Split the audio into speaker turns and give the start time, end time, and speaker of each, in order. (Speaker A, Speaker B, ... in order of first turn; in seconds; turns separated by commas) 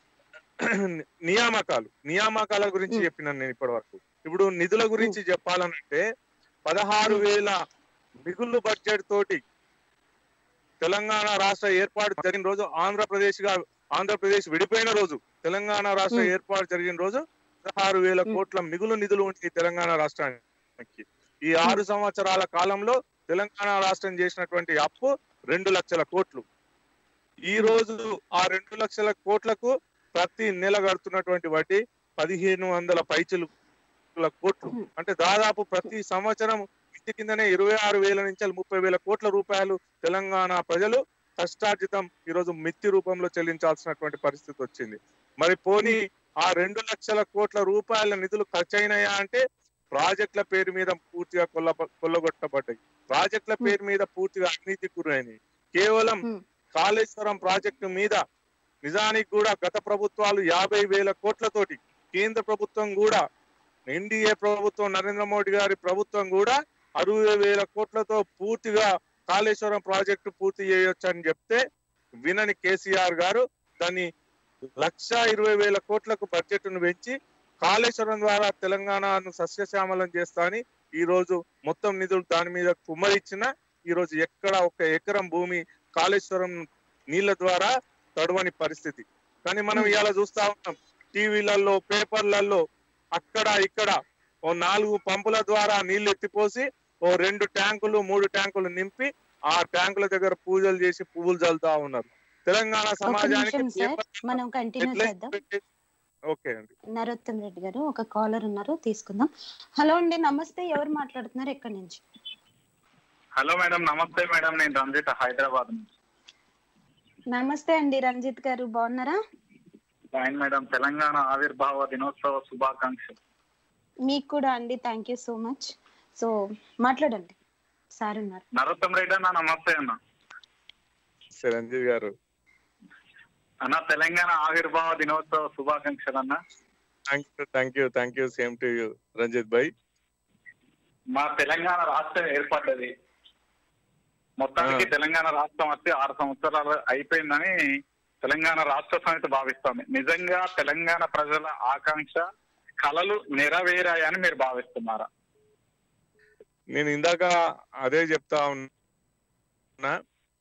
Speaker A: 1.3-6.0, Speaker A: 6.7-7.5, Speaker A: 8.2-9.4, Speaker A: 10.8-26.4, Speaker A: 27.5-33.5, Speaker A: 34.1-49.4, Speaker A: 49.9-56.2, Speaker A: 56.8-58.2, Speaker A: 58.8-63.2, Speaker A: 63.9-71.6, Speaker A: 72.2-74.1, Speaker A: 74.8-86.6, Speaker A: 87.1-92.6, Speaker A: 93.1-93.9, Speaker A: 94.5-105.6, Speaker B: 103.0-105.3, Speaker A: 106.3-106.7, Speaker B: 106.9-112.0, Speaker C: 113.4-115.8, Speaker B: 117.3-119.2, Speaker C: 120.1-123.2, Speaker B: 124.1-126.3, Speaker B: 126.8-127.3, Speaker B: 128.0-128.4, Speaker C: 128.5-129.9, Speaker A: 131.4-132.1, Speaker C: 133.6-136.4, Speaker A: 137.1-139.7, Speaker C: 141.1-142.9, Speaker C: 144.4-147.6, Speaker A: 144.6-144.9, Speaker C: 148.2-152.2, Speaker C: 152.8-155.1, Speaker A: 156.7-158.7